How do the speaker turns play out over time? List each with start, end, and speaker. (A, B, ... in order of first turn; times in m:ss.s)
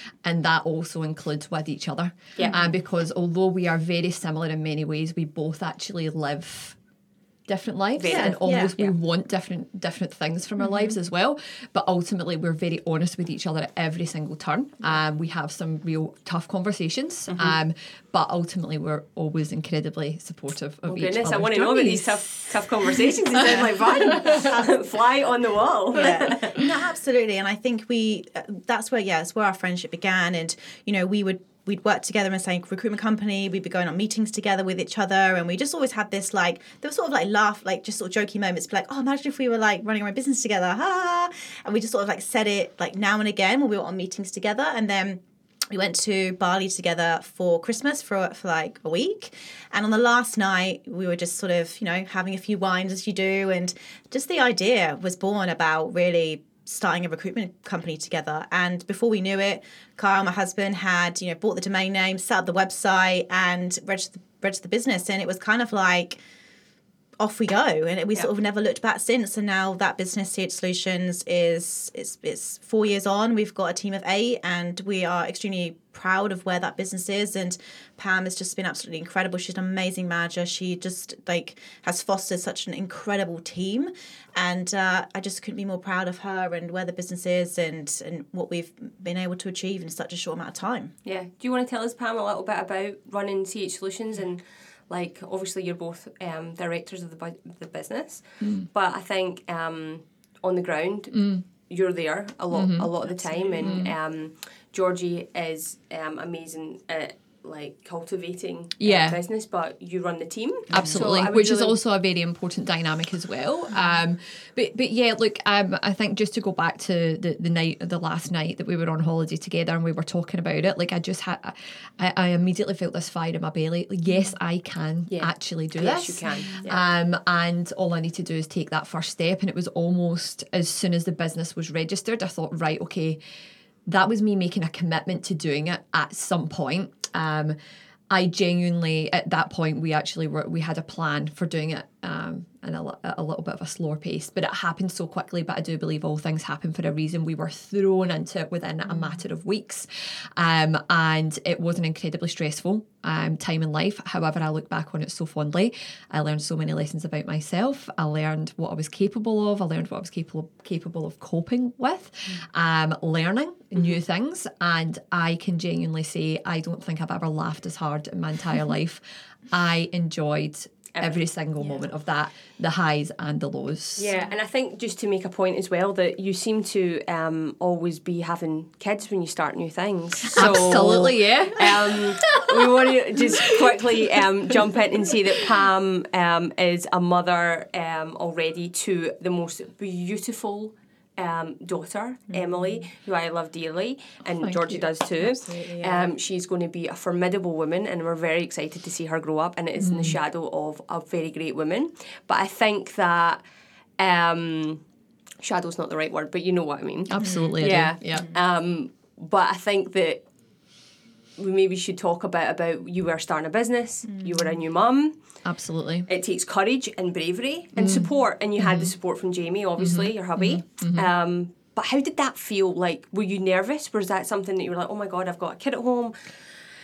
0:00.2-0:06.8 A
0:02.4-0:02.7 B
0:07.5-0:22.5 A
0:08.0-0:08.9 C
0:08.0-0:08.7 B
0:17.3-0:17.6 C
0:20.9-0:26.7 C
0:23.3-0:23.8 A
0:23.4-0:24.7 B
0:25.9-1:06.2 B
1:07.2-1:30.9 B
1:31.0-1:51.8 C
1:38.4-1:38.7 A
1:41.1-1:41.4 A
1:42.5-1:42.9 A
1:43.1-1:43.8 B
1:43.6-1:43.9 A
1:48.8-1:49.2 A
1:50.7-1:51.0 B
1:50.7-2:13.2 A
2:05.1-2:06.8 C
2:13.9-2:17.6 A
2:18.1-2:54.1 A
2:54.0-3:23.4 C
3:00.3-3:04.0 A
3:12.3-3:12.8 B
3:14.3-3:14.8 A
3:15.2-3:16.1 B
3:19.8-3:20.2 A
3:24.0-3:24.8 C
3:25.4-3:30.2 C
3:27.1-3:28.3 A
3:27.2-3:27.5 B
3:28.1-3:28.4 B
3:31.4-3:35.1 C
3:34.1-3:34.5 B
3:35.4-3:36.1 A
3:36.1-3:46.4 C
3:37.8-3:38.9 A
3:39.8-3:41.1 A